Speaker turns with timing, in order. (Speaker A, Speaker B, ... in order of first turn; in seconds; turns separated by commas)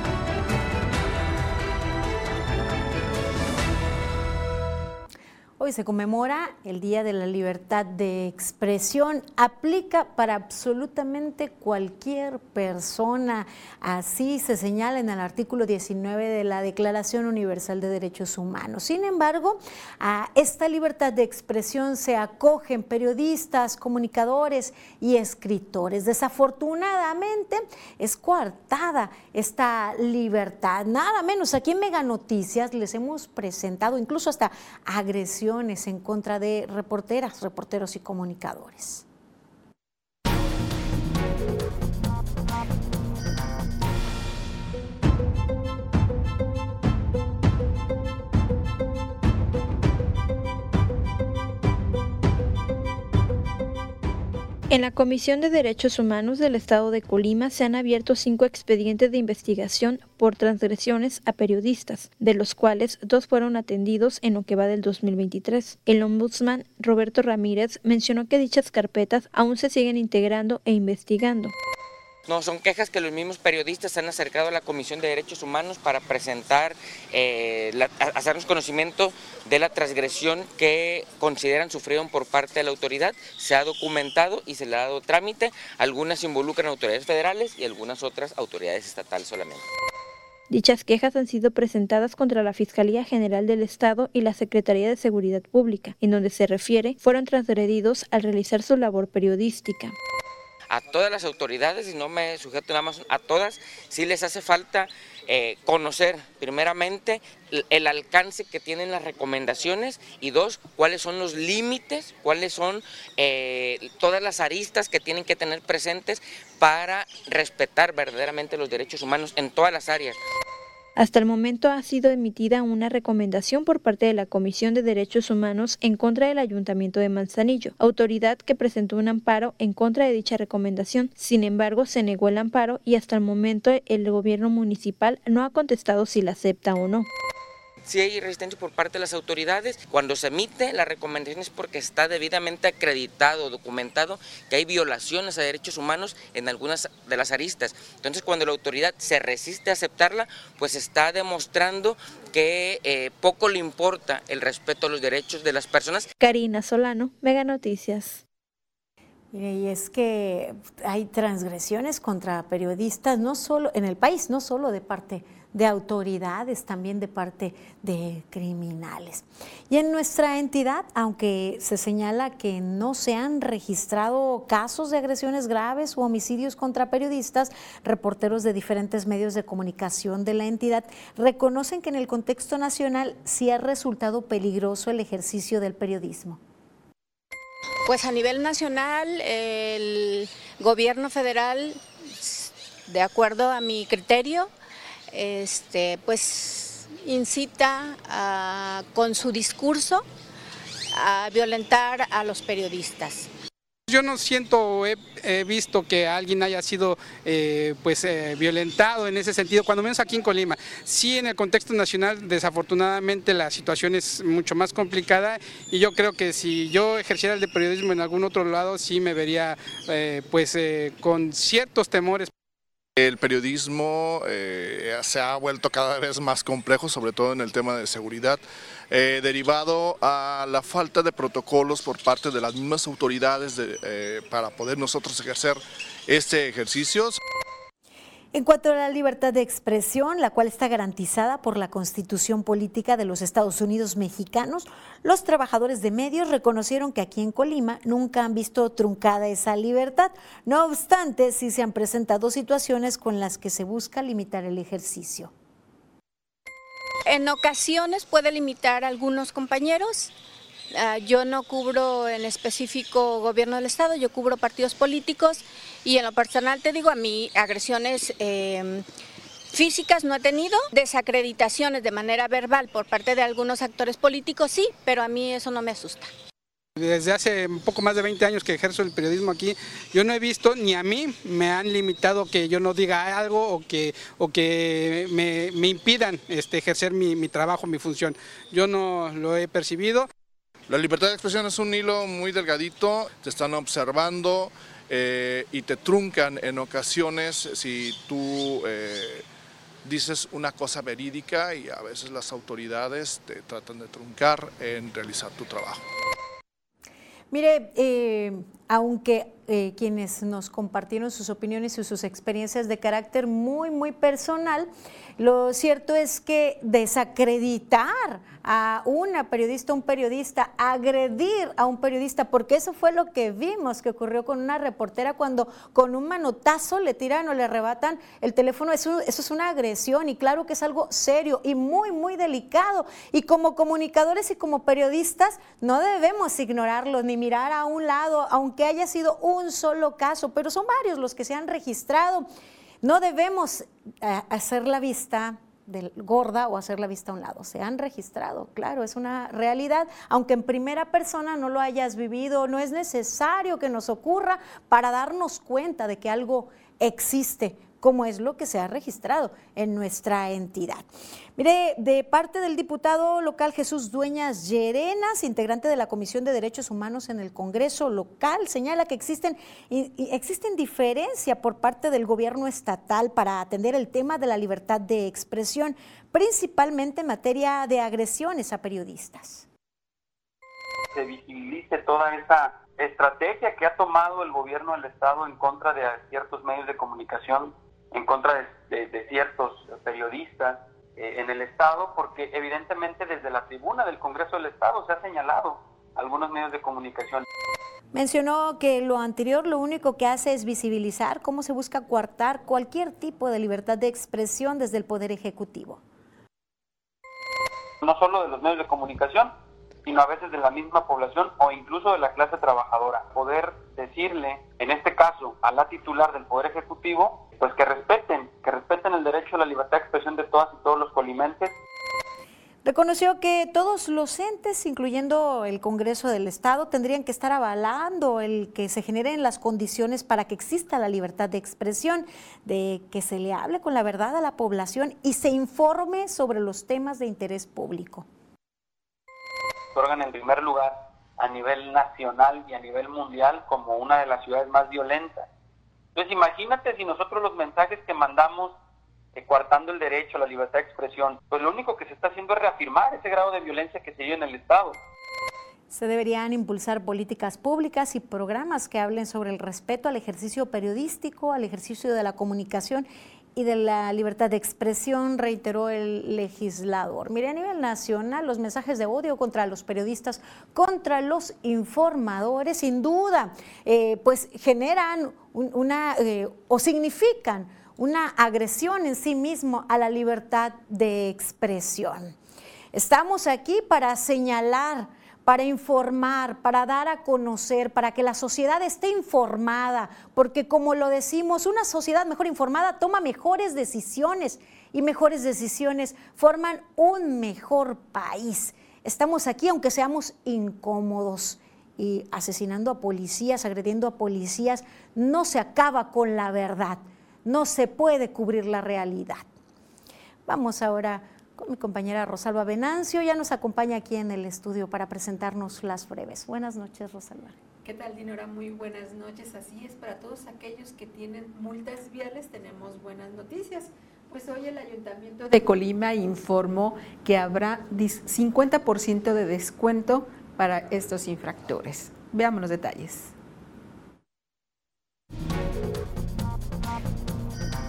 Speaker A: 5.6-39.0, Speaker B: 54.7-71.5, Speaker C: 72.3-89.7, Speaker B: 90.5-100.0, Speaker C: 100.7-120.2, Speaker B: 121.0-137.1, Speaker C: 137.9-156.1, Speaker B: 156.2-158.2, Speaker A: 159.3-186.4, Speaker D: 187.9-194.5, Speaker D: 195.1-200.1, Speaker D: 200.9-203.3, Speaker E: 203.9-222.3, Speaker F: 223.0-237.2, Speaker A: 238.3-255.3, Speaker D: 257.1-260.1, Speaker D: 260.8-268.9, Speaker D: 269.5-276.1, Speaker E: 276.8-290.1, Speaker F: 290.7-299.2, Speaker F: 299.9-305.9, Speaker A: 307.3-342.3, Speaker A: 342.8-360.9, Speaker A: 361.4-379.5, Speaker G: 380.9-397.2, Speaker A: 397.9-405.8, Speaker G: 407.8-409.3, Speaker G: 409.9-421.5, Speaker A: 422.6-438.1, Speaker G: 439.8-445.3, Speaker G: 445.9-448.5, Speaker G: 449.1-454.8, Speaker A: 455.7-482.1, Speaker A: 482.7-509.2, Speaker A: 510.3-517.4, Speaker H: 517.6-533.1